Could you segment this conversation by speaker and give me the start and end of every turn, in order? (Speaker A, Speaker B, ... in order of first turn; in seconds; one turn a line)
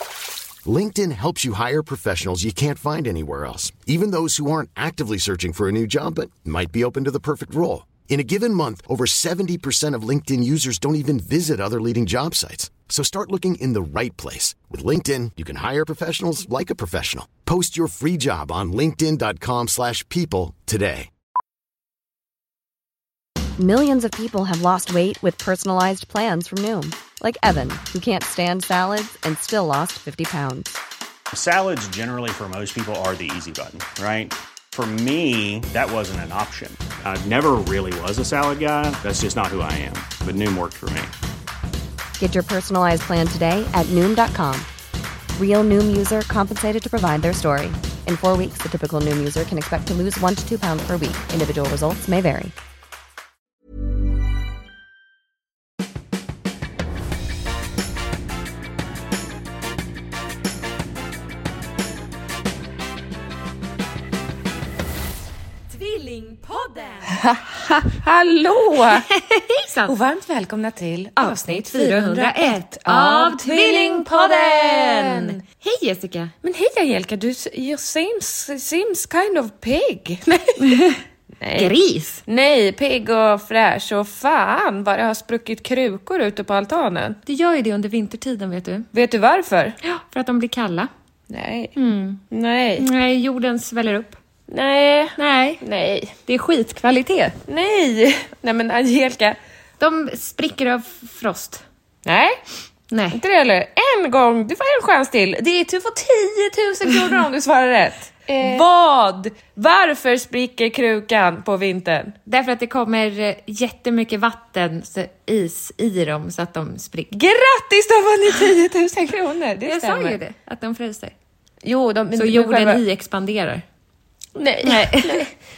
Speaker A: 0.6-21.1
Speaker B: 23.6-30.8
Speaker C: 31.3-41.1
Speaker B: 42.2-44.7
Speaker B: 45.4-52.5
Speaker D: 65.7-67.0
Speaker E: 67.2-69.1
Speaker D: 69.0-69.9
Speaker E: 69.9-75.4
Speaker D: 71.2-76.3
Speaker E: 76.4-80.7
Speaker D: 80.6-81.0
Speaker E: 81.4-81.7
Speaker D: 81.6-82.2
Speaker E: 82.2-87.2
Speaker D: 87.2-88.8
Speaker E: 88.9-89.8
Speaker D: 89.8-90.9
Speaker E: 91.3-91.7
Speaker D: 91.8-92.2
Speaker E: 92.3-92.9
Speaker D: 92.8-94.2
Speaker E: 94.5-96.1
Speaker D: 95.2-95.6
Speaker D: 96.3-97.3
Speaker E: 97.5-99.4
Speaker D: 99.8-101.6
Speaker E: 102.0-102.4
Speaker D: 102.9-103.2
Speaker E: 103.1-112.2
Speaker D: 112.3-117.1
Speaker E: 117.1-120.2
Speaker D: 119.6-121.1
Speaker E: 121.6-122.8
Speaker D: 122.1-123.6
Speaker E: 124.3-125.3
Speaker D: 124.6-125.2